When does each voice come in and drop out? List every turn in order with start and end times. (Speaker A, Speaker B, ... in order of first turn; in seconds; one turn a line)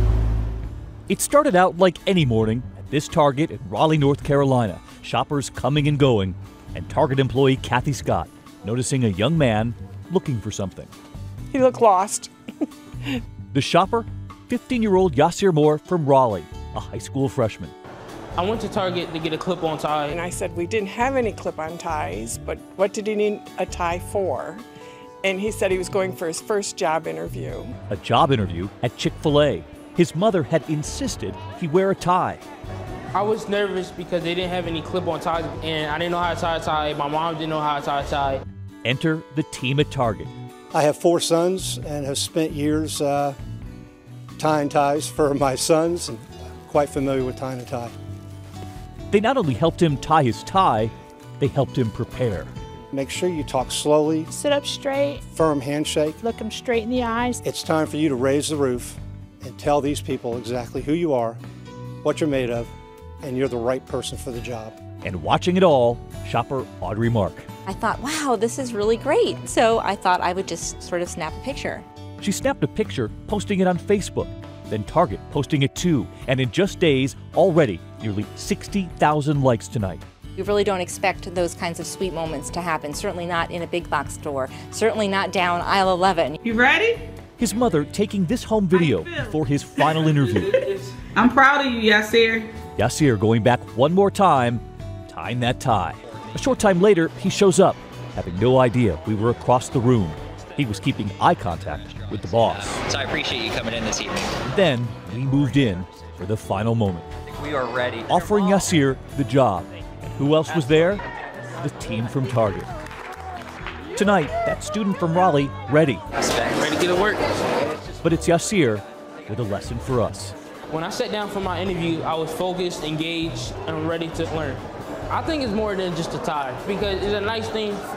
Speaker A: 1.1-10.9
Speaker B: 11.5-12.3
Speaker A: 13.5-17.7
Speaker C: 18.4-20.1
Speaker B: 20.1-24.6
Speaker B: 25.2-27.7
Speaker A: 27.9-32.4
Speaker C: 33.1-38.4
Speaker A: 38.8-40.3
Speaker D: 40.7-43.4
Speaker D: 44.4-47.9
Speaker A: 49.1-52.5
Speaker D: 52.9-54.3
Speaker E: 54.3-55.2
Speaker D: 55.3-56.2
Speaker E: 56.2-57.4
Speaker D: 57.4-61.4
Speaker D: 62.0-62.7
Speaker D: 63.2-64.8
Speaker A: 65.0-67.5
Speaker F: 67.7-71.8
Speaker A: 72.2-80.0
Speaker F: 80.3-86.4
Speaker G: 86.5-87.0
Speaker A: 87.4-90.6
Speaker G: 91.1-92.5
Speaker A: 92.8-102.8
Speaker H: 101.7-104.4
Speaker A: 104.4-107.1
Speaker H: 107.3-108.6
Speaker A: 108.1-111.0
Speaker A: 111.6-112.7
Speaker A: 113.9-116.0
Speaker H: 116.2-116.9
Speaker C: 116.5-117.3
Speaker A: 118.0-120.3
Speaker C: 120.7-127.8